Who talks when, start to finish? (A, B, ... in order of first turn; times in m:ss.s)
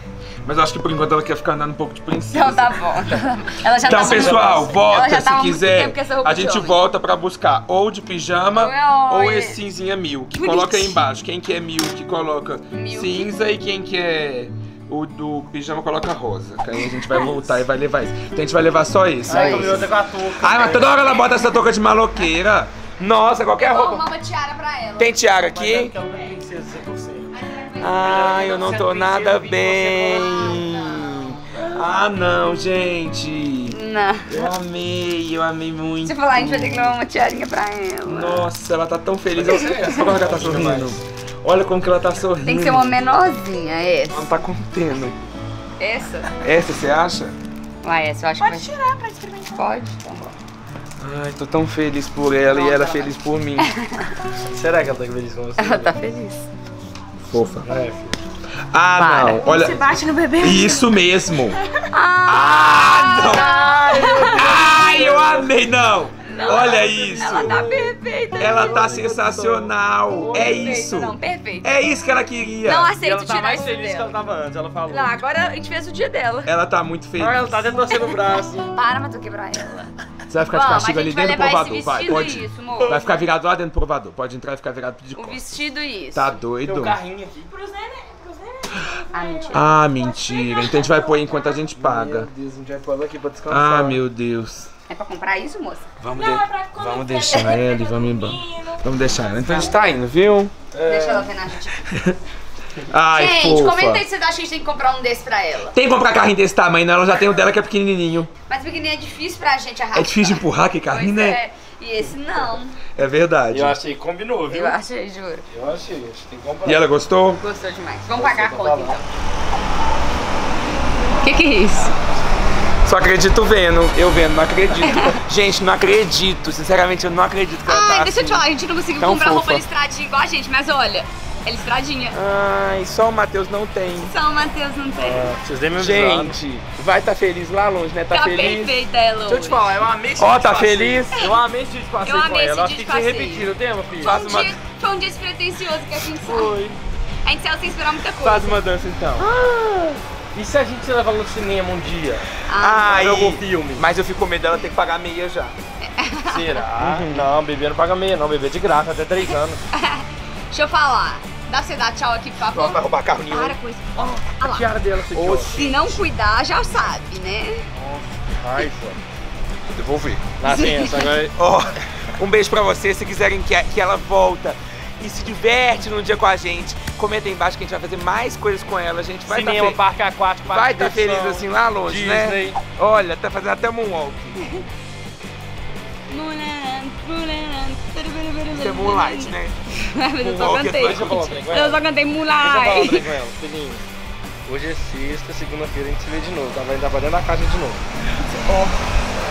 0:00.4-0:03.0 A
0:02.3-0:06.8 B
0:03.8-0:24.1 A
0:08.5-0:09.6 B
0:10.3-0:11.0 B
0:12.7-0:13.3 B
0:16.9-0:17.4 B
0:19.2-0:21.1 C
0:19.3-0:19.8 B
0:23.6-0:25.2 B
0:25.0-0:25.9 A
0:25.5-0:30.6 C
0:27.3-0:28.3 B
0:27.8-0:33.8 A
0:30.1-0:31.3 B
0:33.7-0:34.3 B
0:34.3-0:36.9 A
0:36.0-0:38.5 B
0:38.0-0:43.0 A
0:39.3-0:41.0 C
0:42.4-0:44.4 B
0:44.1-0:45.2 A
0:45.8-0:46.3 B
0:46.4-0:47.3 A
0:47.8-0:48.8 B
0:48.8-0:49.4 D
0:49.4-0:50.3 B
0:51.0-0:53.7 A
0:52.5-0:54.1 B
0:54.4-0:55.9 C
0:55.6-0:56.5 B
0:57.2-0:57.7 A
0:57.6-0:58.2 C
0:58.7-0:59.8 A
0:59.0-1:00.9 B
1:00.4-1:01.6 A
1:01.8-1:05.3 B
1:02.3-1:07.6 A
1:03.2-1:05.5 C
1:06.2-1:08.8 B
1:06.5-1:08.0 C
1:08.4-1:12.9 A
1:08.5-1:10.7 C
1:10.3-1:11.8 B
1:12.6-1:14.2 B
1:13.0-1:15.2 C
1:14.9-1:16.5 B
1:16.4-1:17.5 A
1:17.2-1:18.6 C
1:17.9-1:19.9 B
1:20.3-1:25.5 A
1:20.5-1:23.0 B
1:25.1-1:26.4 B
1:26.1-1:27.0 A
1:26.6-1:28.0 C
1:28.0-1:28.3 D
1:29.1-1:29.7 B
1:29.5-1:32.3 A
1:31.7-1:34.0 C
1:33.5-1:34.7 A
1:34.9-1:35.9 B
1:36.0-1:40.5 A
1:36.2-1:37.5 D
1:37.3-1:37.6 B
1:40.7-1:41.3 C
1:40.8-1:41.8 B
1:41.8-1:42.2 A
1:42.9-1:44.0 A
1:43.1-1:45.8 B
1:45.7-1:48.3 A
1:48.5-1:52.8 B
1:49.9-1:51.4 A
1:53.0-1:53.8 A
1:53.5-1:54.8 C
1:54.5-1:55.4 B
1:55.5-1:56.9 C
1:56.6-1:57.4 A
1:57.4-1:59.0 B
1:58.1-1:59.0 C
2:01.2-2:01.9 B
2:02.8-2:08.5 A
2:04.8-2:05.2 B
2:07.6-2:12.2 B
2:09.0-2:09.6 A
2:12.1-2:14.1 A
2:14.0-2:15.3 B
2:15.0-2:16.4 C
2:15.8-2:18.8 A
2:18.1-2:19.6 B
2:19.3-2:24.2 C
2:20.2-2:21.3 A
2:22.0-2:26.5 B
2:24.0-2:24.6 A
2:26.2-2:26.8 C
2:27.2-2:28.6 B
2:28.2-2:29.3 A
2:29.2-2:32.3 C
2:32.5-2:33.0 B
2:32.6-2:35.5 A
2:32.9-2:33.8 C
2:35.8-2:36.4 B
2:36.2-2:39.6 C
2:36.8-2:37.3 A
2:39.7-2:44.7 B
2:42.5-2:43.6 A
2:44.0-2:45.8 C
2:45.1-2:46.0 A
2:45.5-2:47.6 B
2:47.8-2:49.0 C
2:49.7-2:50.3 A
2:50.4-2:51.3 C
2:50.5-2:51.1 B
2:51.4-2:59.8 A
2:59.3-3:02.6 C
3:00.5-3:04.5 A
3:06.1-3:13.0 B
3:08.5-3:09.5 A
3:10.2-3:11.4 A
3:10.6-3:11.8 C
3:12.4-3:13.8 C
3:14.4-3:17.8 C
3:18.2-3:18.8 A